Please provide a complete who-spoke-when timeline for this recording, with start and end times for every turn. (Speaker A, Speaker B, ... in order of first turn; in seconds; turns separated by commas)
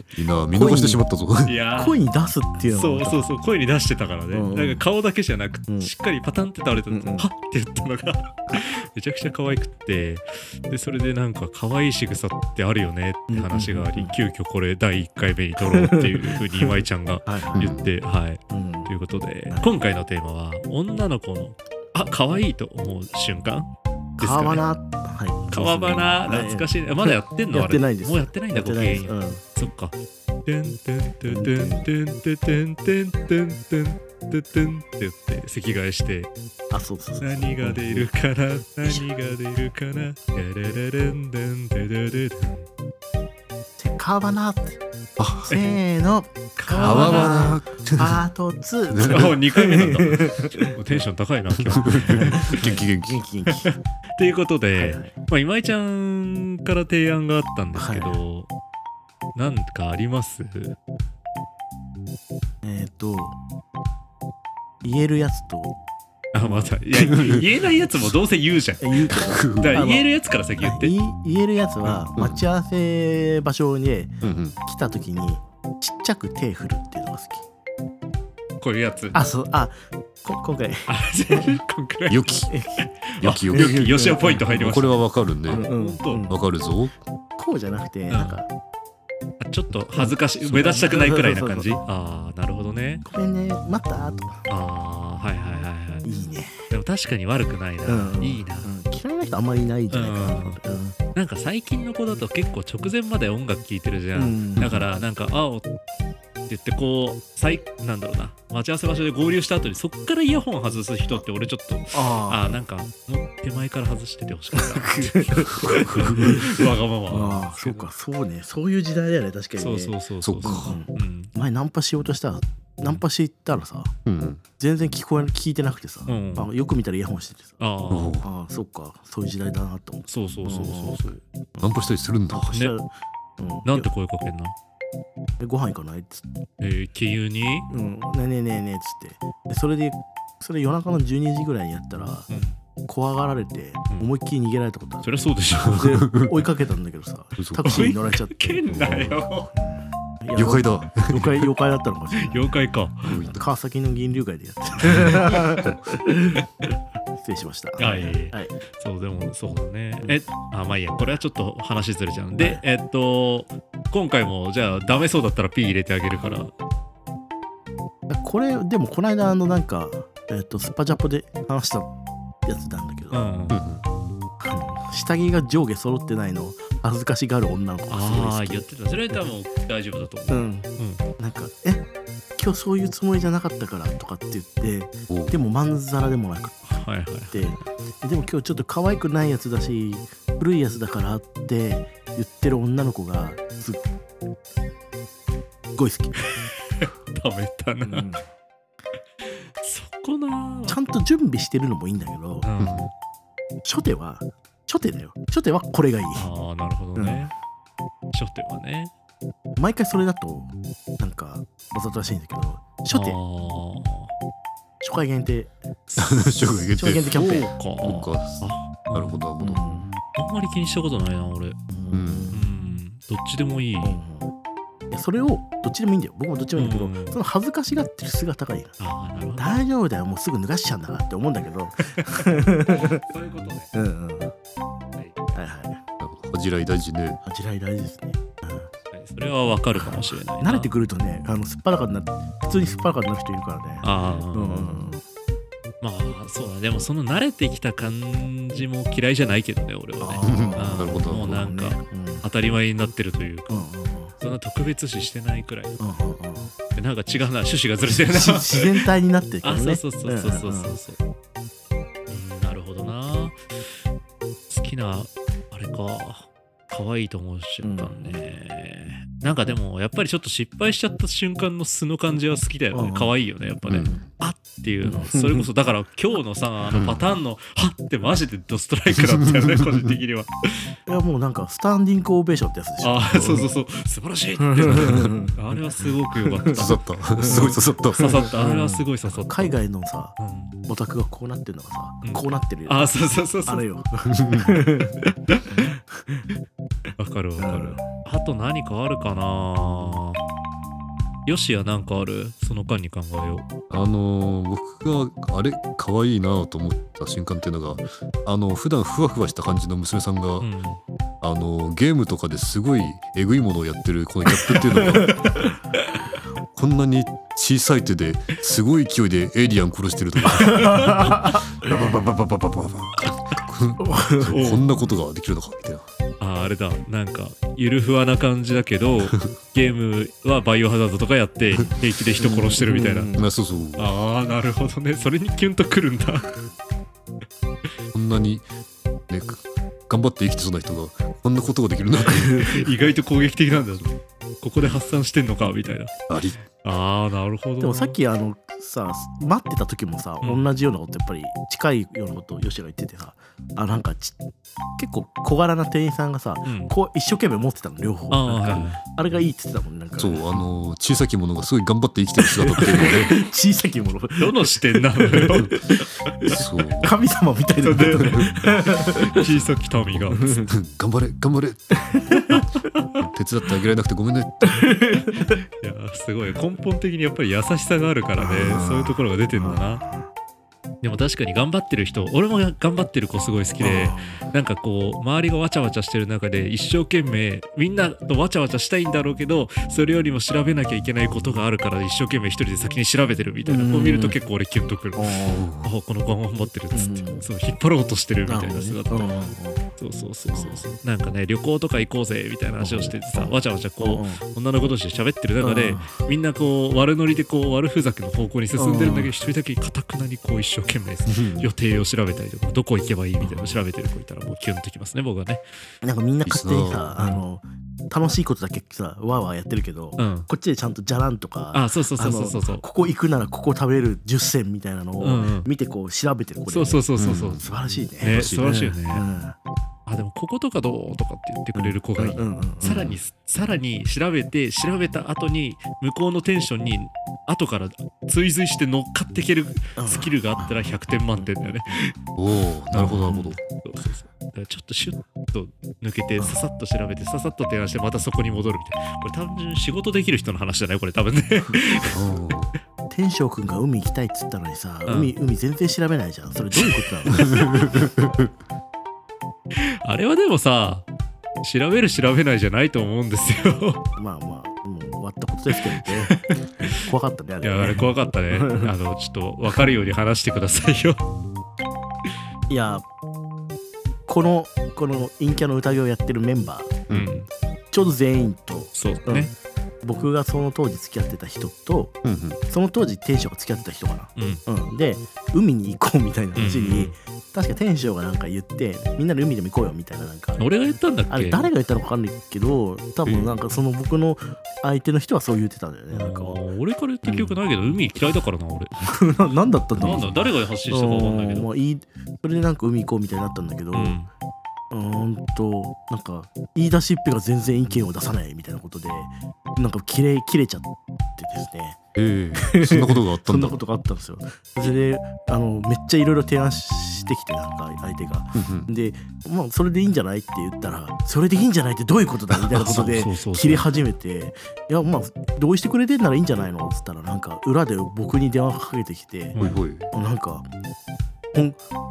Speaker A: 0.1-1.6, Speaker B: 0.5-1.0, Speaker C: 1.4-2.0, Speaker B: 1.8-3.3, Speaker C: 2.7-24.6, Speaker B: 4.3-4.8, Speaker B: 6.9-7.3, Speaker B: 13.3-14.2, Speaker B: 15.6-17.7, Speaker A: 17.6-17.9, Speaker B: 18.5-18.9, Speaker B: 24.2-29.4, Speaker C: 25.5-36.3, Speaker B: 31.3-31.9, Speaker B: 36.7-38.0, Speaker C: 37.2-42.7, Speaker B: 43.8-44.8, Speaker A: 45.2-45.5, Speaker B: 45.5-51.0, Speaker C: 45.5-45.8, Speaker C: 46.6-47.6, Speaker A: 46.8-48.2, Speaker A: 48.9-49.4, Speaker C: 49.0-52.8, Speaker A: 51.7-53.2, Speaker B: 52.0-53.7, Speaker C: 53.6-58.5, Speaker B: 54.8-55.2, Speaker B: 57.8-58.2, Speaker C: 59.4-60.8, Speaker B: 62.6-63.4, Speaker B: 64.8-65.8, Speaker C: 66.3-70.9, Speaker B: 66.4-67.1, Speaker B: 68.8-70.0, Speaker A: 69.2-69.7, Speaker B: 70.6-77.5, Speaker A: 71.9-72.4, Speaker A: 74.2-74.6, Speaker C: 78.6-79.2, Speaker B: 79.1-81.6, Speaker C: 80.9-82.3, Speaker A: 82.1-82.5, Speaker B: 82.5-82.8, Speaker C: 82.8-85.0, Speaker A: 83.2-83.7, Speaker B: 83.5-84.4, Speaker A: 84.5-85.6, Speaker B: 85.5-86.4, Speaker C: 85.5-86.3, Speaker A: 86.3-87.0, Speaker B: 87.4-88.5, Speaker C: 88.1-88.4, Speaker C: 89.4-93.0, Speaker B: 90.0-91.8, Speaker B: 93.0-94.5, Speaker C: 94.5-96.1, Speaker B: 96.0-96.6, Speaker C: 96.7-98.7, Speaker B: 97.8-101.0, Speaker C: 99.9-100.6, Speaker C: 101.1-105.7, Speaker B: 104.2-104.8, Speaker C: 106.5-117.9, Speaker B: 111.9-112.5, Speaker B: 114.6-123.9, Speaker A: 115.6-116.3, Speaker C: 119.6-121.3, Speaker A: 120.2-120.8, Speaker A: 124.0-124.4, Speaker B: 124.6-127.6, Speaker C: 126.1-126.5, Speaker C: 127.6-128.2, Speaker A: 127.9-128.3, Speaker B: 128.2-131.7, Speaker C: 130.1-131.2, Speaker A: 131.6-132.5, Speaker B: 132.3-133.9, Speaker C: 132.5-132.7, Speaker C: 133.7-134.6, Speaker B: 135.4-136.3, Speaker C: 136.6-137.7, Speaker B: 137.7-142.3, Speaker C: 142.3-142.6, Speaker B: 142.8-145.1, Speaker C: 145.0-145.9, Speaker A: 145.6-146.4, Speaker B: 145.7-152.5, Speaker A: 147.4-147.9, Speaker C: 147.6-149.5, Speaker A: 148.7-149.2, Speaker A: 150.3-151.5, Speaker C: 152.2-153.3, Speaker A: 153.1-153.4, Speaker B: 153.2-156.5, Speaker C: 154.9-155.3, Speaker A: 154.9-155.7, Speaker B: 157.2-158.5, Speaker C: 157.8-166.5, Speaker B: 162.4-162.6, Speaker B: 168.1-171.9, Speaker B: 172.4-173.2, Speaker C: 173.1-173.6, Speaker A: 173.5-173.8, Speaker B: 174.4-178.7, Speaker C: 177.9-181.0, Speaker B: 180.3-186.8, Speaker A: 185.1-185.4, Speaker C: 186.7-187.6, Speaker B: 187.3-193.8, Speaker B: 195.8-196.3, Speaker C: 196.2-198.1, Speaker B: 197.8-198.2, Speaker C: 199.2-200.8, Speaker B: 200.7-202.5, Speaker C: 202.4-202.9, Speaker A: 202.6-202.9, Speaker B: 203.7-206.3, Speaker C: 206.2-207.3, Speaker B: 207.0-207.2, Speaker C: 208.1-208.9, Speaker B: 209.6-213.2, Speaker C: 212.9-214.1, Speaker B: 214.8-215.5, Speaker C: 215.9-216.2, Speaker A: 216.0-219.8, Speaker B: 216.7-218.1, Speaker C: 217.1-219.2, Speaker B: 219.4-219.9, Speaker C: 220.1-221.6, Speaker B: 221.7-222.5, Speaker A: 221.9-222.3, Speaker C: 222.3-224.0, Speaker B: 223.8-224.3, Speaker B: 224.9-228.8, Speaker C: 226.6-227.2, Speaker C: 228.8-229.6, Speaker B: 229.4-233.1, Speaker C: 232.7-233.7, Speaker B: 233.7-234.3, Speaker C: 235.0-235.4, Speaker B: 235.3-235.8, Speaker A: 236.0-237.2, Speaker B: 237.2-238.7, Speaker C: 238.9-240.7, Speaker B: 239.8-245.0, Speaker C: 243.8-244.8, Speaker C: 245.8-253.7, Speaker B: 250.0-252.3, Speaker A: 250.2-251.4, Speaker B: 253.5-254.2, Speaker C: 254.2-255.8, Speaker B: 255.8-256.5, Speaker C: 256.7-258.8, Speaker B: 258.0-260.8, Speaker C: 259.4-261.0, Speaker C: 262.1-263.4, Speaker C: 264.5-280.7, Speaker B: 267.6-268.2, Speaker B: 272.7-273.1, Speaker A: 273.7-273.9, Speaker B: 274.8-275.5, Speaker A: 276.7-277.1, Speaker A: 279.1-279.8, Speaker B: 280.9-283.5, Speaker C: 282.8-289.6, Speaker B: 284.4-285.5, Speaker A: 284.7-285.1, Speaker B: 286.2-286.7, Speaker A: 286.5-288.2, Speaker B: 287.2-296.3, Speaker C: 290.2-290.5, Speaker C: 292.0-293.6, Speaker A: 294.1-294.6, Speaker C: 295.3-295.7, Speaker C: 297.0-300.2, Speaker B: 297.4-297.9, Speaker C: 301.3-303.5, Speaker A: 303.7-310.5, Speaker C: 310.4-310.8, Speaker A: 311.2-315.2, Speaker B: 314.4-315.5, Speaker A: 316.6-325.9, Speaker B: 320.3-321.7, Speaker C: 320.5-321.1, Speaker B: 323.8-324.4, Speaker C: 324.3-324.6, Speaker C: 326.2-333.1, Speaker B: 332.2-333.3, Speaker A: 333.2-333.9, Speaker C: 333.8-336.4, Speaker A: 337.9-338.5, Speaker A: 339.1-342.6, Speaker B: 342.0-342.7, Speaker C: 342.1-343.9, Speaker C: 344.4-345.9, Speaker A: 346.1-346.4, Speaker C: 346.6-348.0, Speaker B: 347.6-354.2, Speaker C: 350.2-350.5, Speaker B: 354.8-360.2, Speaker C: 356.4-356.7, Speaker C: 358.1-358.8, Speaker A: 360.0-363.1, Speaker B: 362.2-369.3, Speaker C: 364.2-366.3, Speaker A: 366.3-366.9, Speaker C: 367.6-370.4, Speaker B: 370.1-370.5, Speaker A: 370.5-371.8, Speaker B: 371.8-372.3, Speaker C: 372.3-373.0, Speaker A: 373.0-374.7, Speaker B: 374.4-375.3, Speaker C: 375.1-379.8, Speaker B: 378.2-378.7, Speaker B: 379.3-380.1, Speaker C: 380.8-415.4, Speaker B: 383.6-384.3, Speaker B: 393.4-394.2, Speaker B: 395.0-395.5, Speaker A: 395.3-395.7, Speaker B: 396.7-397.3, Speaker B: 398.3-399.6, Speaker B: 400.3-400.6, Speaker B: 402.6-404.2, Speaker B: 405.4-406.0, Speaker B: 408.6-409.1, Speaker A: 411.1-411.5, Speaker B: 413.2-413.6, Speaker B: 415.8-429.4, Speaker A: 416.3-416.9, Speaker C: 420.0-420.3, Speaker C: 421.5-422.6, Speaker C: 425.0-425.5, Speaker C: 426.5-427.4, Speaker A: 427.0-427.4, Speaker C: 428.0-429.1, Speaker A: 428.1-428.4, Speaker C: 429.9-441.9, Speaker B: 431.6-432.9, Speaker A: 432.6-433.0, Speaker B: 439.8-441.8, Speaker A: 442.2-443.4, Speaker C: 442.7-452.0, Speaker B: 443.0-443.4, Speaker B: 446.2-446.4, Speaker A: 451.9-452.5, Speaker B: 452.9-457.7, Speaker C: 454.9-455.1, Speaker C: 456.6-457.6, Speaker A: 457.3-458.3, Speaker C: 459.6-460.9, Speaker C: 461.4-463.8, Speaker B: 464.0-468.7, Speaker C: 465.7-466.8, Speaker C: 467.4-471.1, Speaker B: 472.5-472.9, Speaker B: 474.1-476.8, Speaker C: 476.9-477.3, Speaker B: 477.7-479.3, Speaker C: 478.7-479.3, Speaker B: 479.8-482.0, Speaker A: 482.0-482.4, Speaker B: 482.5-490.5, Speaker C: 484.2-484.4, Speaker C: 486.4-487.0, Speaker C: 490.4-491.5, Speaker B: 491.1-496.4, Speaker C: 493.1-493.3, Speaker C: 495.9-498.9, Speaker B: 497.1-497.4, Speaker B: 498.8-504.0, Speaker C: 499.8-501.5, Speaker C: 503.7-504.1, Speaker B: 504.7-511.8, Speaker A: 511.9-513.6, Speaker B: 512.4-529.4, Speaker A: 518.4-518.7, Speaker C: 522.5-523.7, Speaker C: 529.3-529.6, Speaker A: 529.4-529.9, Speaker B: 529.9-530.5, Speaker B: 531.3-531.6